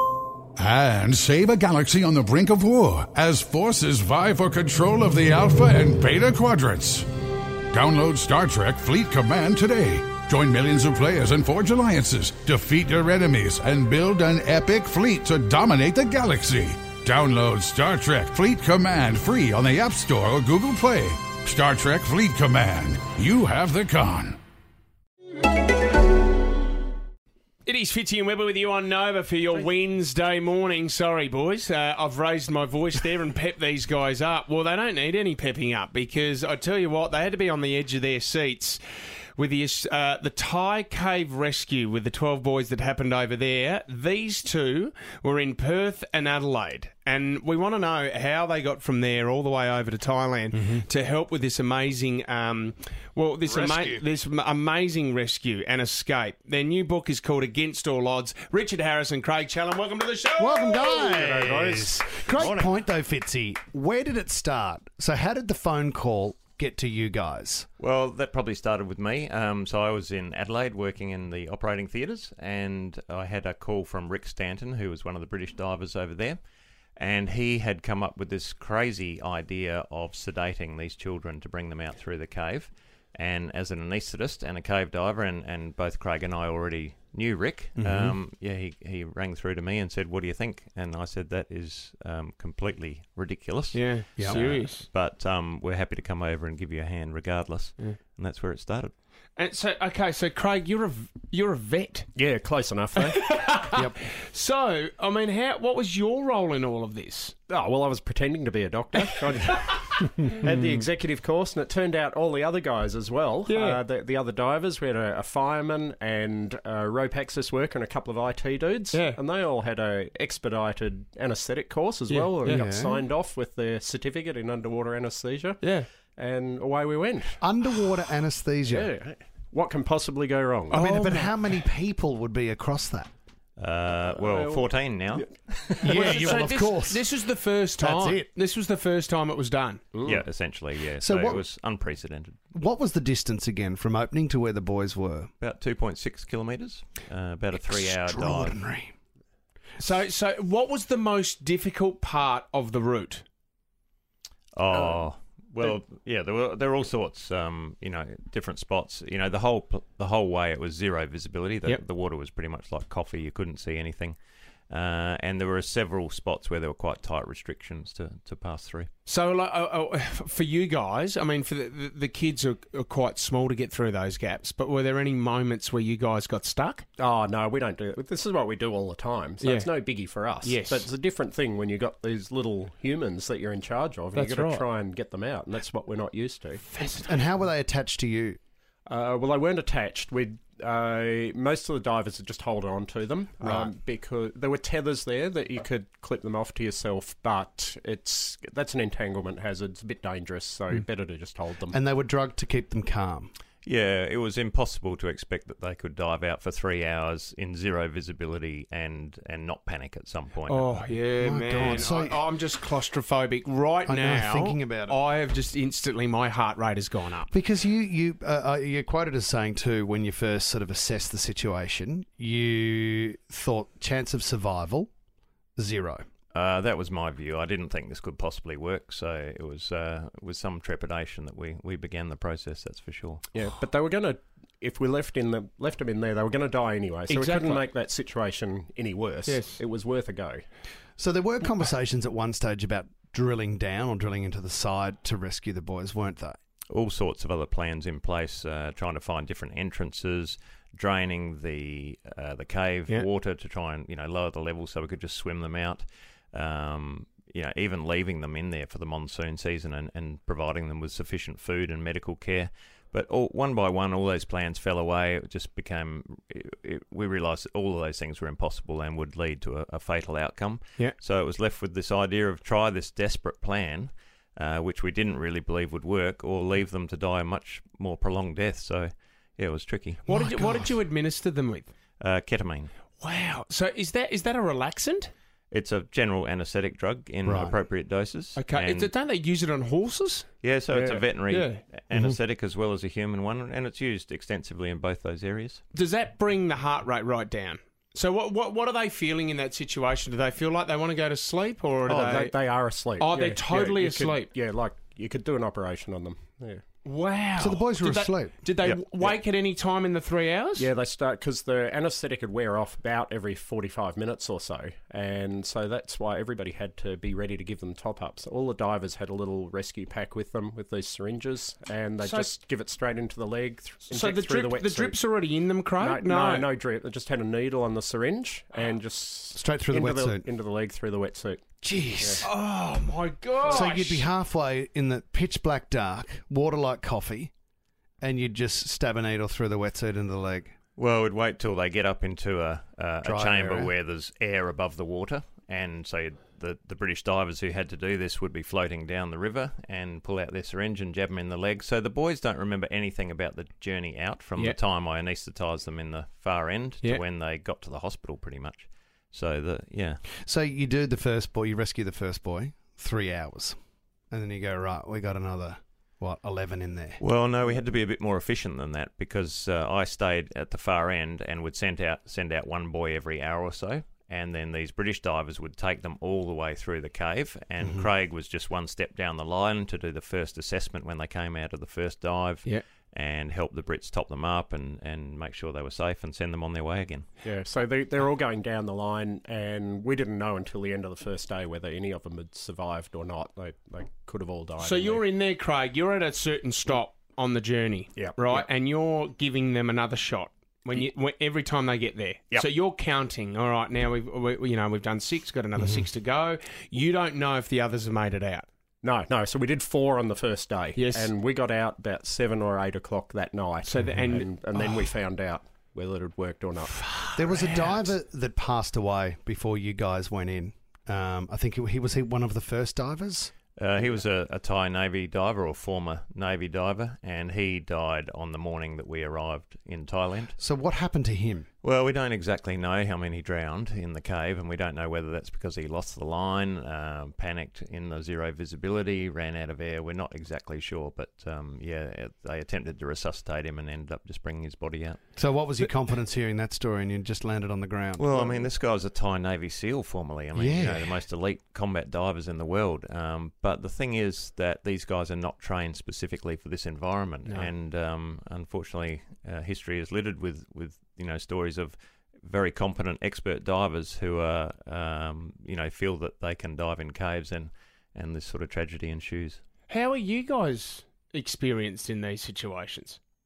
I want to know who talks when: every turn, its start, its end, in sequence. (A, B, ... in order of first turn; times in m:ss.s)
0:00.6-0:07.1 A
0:07.7-0:24.4 A
0:27.6-0:38.8 B
0:39.4-1:01.0 B
0:50.5-0:50.9 C
0:53.5-0:54.0 C
1:00.4-1:07.7 C
1:00.9-1:02.1 D
1:02.4-1:02.8 E
1:07.8-1:16.4 E
1:17.0-1:38.9 E
1:27.8-1:28.2 C
1:33.7-1:34.9 B
1:34.2-1:34.5 C
1:39.4-1:42.1 B
1:42.2-1:43.2 D
1:43.0-1:47.3 B
1:43.7-1:44.0 C
1:47.5-2:05.6 D
1:53.5-1:53.8 B
1:58.9-1:59.2 B
2:02.1-2:02.6 B
2:02.4-2:03.0 C
2:05.6-2:05.9 B
2:06.2-2:07.4 D
2:07.4-2:08.9 C
2:08.7-2:10.9 D
2:10.7-2:11.4 B
2:10.7-2:13.1 C
2:13.6-2:15.3 E
2:14.0-2:16.3 D
2:15.8-2:17.1 C
2:15.8-2:19.8 B
2:17.8-2:18.3 C
2:20.0-2:20.2 D
2:20.0-2:22.5 E
2:21.0-2:21.5 C
2:22.5-2:25.3 C
2:25.4-2:28.6 E
2:27.6-2:28.9 C
2:29.8-2:33.2 B
2:34.6-2:44.2 E
2:34.7-2:35.0 D
2:44.7-2:48.9 E
2:49.0-2:56.9 B
2:57.0-3:06.6 D
2:59.4-3:00.9 B
3:04.1-3:04.7 B
3:06.6-3:07.2 B
3:07.0-3:08.4 C
3:08.9-3:21.8 D
3:13.4-3:13.7 C
3:21.7-3:23.3 C
3:23.6-3:30.8 E
3:30.5-3:37.3 B
3:31.2-3:32.2 C
3:31.6-3:31.9 E
3:33.9-3:35.0 C
3:37.3-3:44.9 C
3:45.6-3:46.0 C
3:46.3-3:53.3 E
3:53.3-4:00.4 D
3:57.1-3:57.7 B
3:59.3-3:59.6 B
4:01.0-4:06.4 C
4:06.7-4:40.0 E
4:40.0-4:41.7 B
4:40.1-4:40.8 C
4:42.0-4:42.7 E
4:43.0-4:45.1 B
4:45.5-4:48.9 E
4:47.2-4:47.6 C
4:48.4-4:51.6 B
4:50.4-4:55.6 E
4:55.7-5:04.3 B
5:01.9-5:06.6 D
5:06.8-5:10.7 B
5:07.4-5:08.4 C
5:10.6-5:25.0 D
5:22.0-5:22.3 B
5:23.9-5:26.5 B
5:25.8-5:31.4 D
5:29.4-5:30.3 C
5:31.6-5:32.3 C
5:32.2-5:34.1 B
5:33.4-5:37.3 C
5:38.0-5:40.6 C
5:40.8-6:00.0 E
5:43.0-5:43.7 C
6:00.2-6:03.6 C
6:04.1-6:07.0 C
6:07.0-6:27.1 E
6:17.6-6:17.9 C
6:27.2-6:35.0 D
6:34.6-6:48.5 B
6:38.0-6:38.5 D
6:45.6-6:45.9 C
6:48.8-6:56.7 D
6:50.8-6:51.1 B
6:53.6-6:54.7 B
6:56.7-6:57.9 B
6:57.2-7:03.3 C
7:03.6-7:10.4 E
7:10.4-7:11.5 C
7:11.6-7:25.0 E
7:25.2-7:28.5 C
7:28.0-7:49.4 E
7:30.3-7:31.0 C
7:37.2-7:37.5 B
7:49.7-7:53.0 B